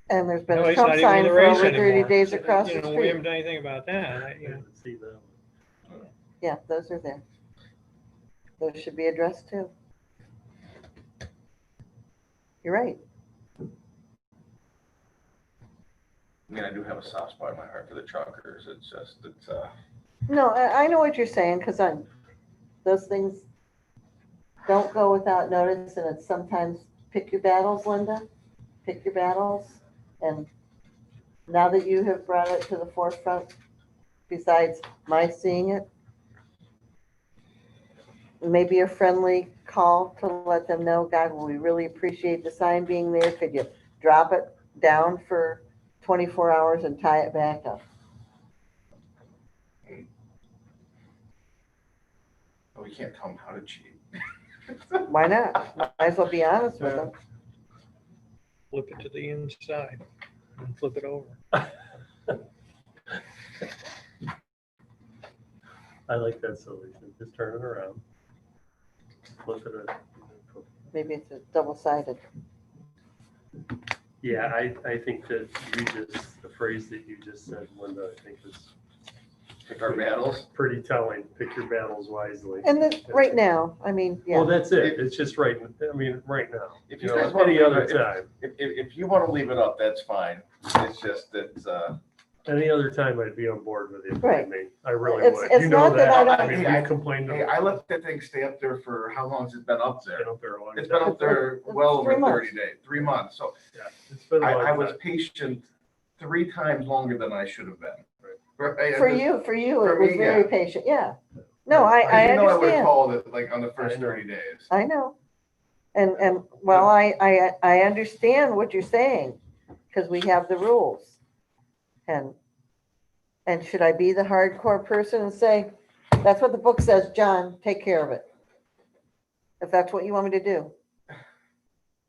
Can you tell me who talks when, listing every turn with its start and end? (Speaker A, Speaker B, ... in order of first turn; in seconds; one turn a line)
Speaker A: 0.1-3.2
Speaker B: 0.5-4.6
Speaker C: 4.4-5.3
Speaker A: 6.4-7.2
Speaker A: 8.6-9.7
Speaker A: 12.6-13.0
Speaker D: 16.5-19.7
Speaker A: 20.3-22.1
Speaker A: 22.8-23.4
Speaker A: 24.6-28.2
Speaker A: 28.8-30.5
Speaker A: 31.5-33.5
Speaker A: 34.3-35.9
Speaker A: 38.4-47.8
Speaker D: 52.8-54.0
Speaker A: 55.1-57.1
Speaker B: 58.7-60.0
Speaker B: 60.6-61.4
Speaker C: 66.1-68.0
Speaker C: 69.4-70.7
Speaker A: 70.9-72.2
Speaker C: 74.2-78.7
Speaker D: 79.7-80.5
Speaker C: 79.8-83.4
Speaker A: 82.6-84.6
Speaker C: 84.3-88.3
Speaker D: 86.9-92.0
Speaker C: 92.4-97.6
Speaker A: 94.2-94.5
Speaker A: 95.0-96.7
Speaker D: 95.9-103.5
Speaker C: 100.2-101.2
Speaker A: 101.0-102.5
Speaker C: 103.7-105.0
Speaker D: 104.4-105.7
Speaker D: 106.2-108.0
Speaker D: 108.6-109.3
Speaker A: 108.9-112.9
Speaker D: 109.8-110.5
Speaker C: 111.7-112.4
Speaker D: 112.0-114.7
Speaker C: 113.8-114.3
Speaker A: 114.7-115.1
Speaker A: 115.9-119.4
Speaker A: 119.9-121.2
Speaker A: 122.1-122.3
Speaker A: 123.5-128.3
Speaker A: 129.6-130.7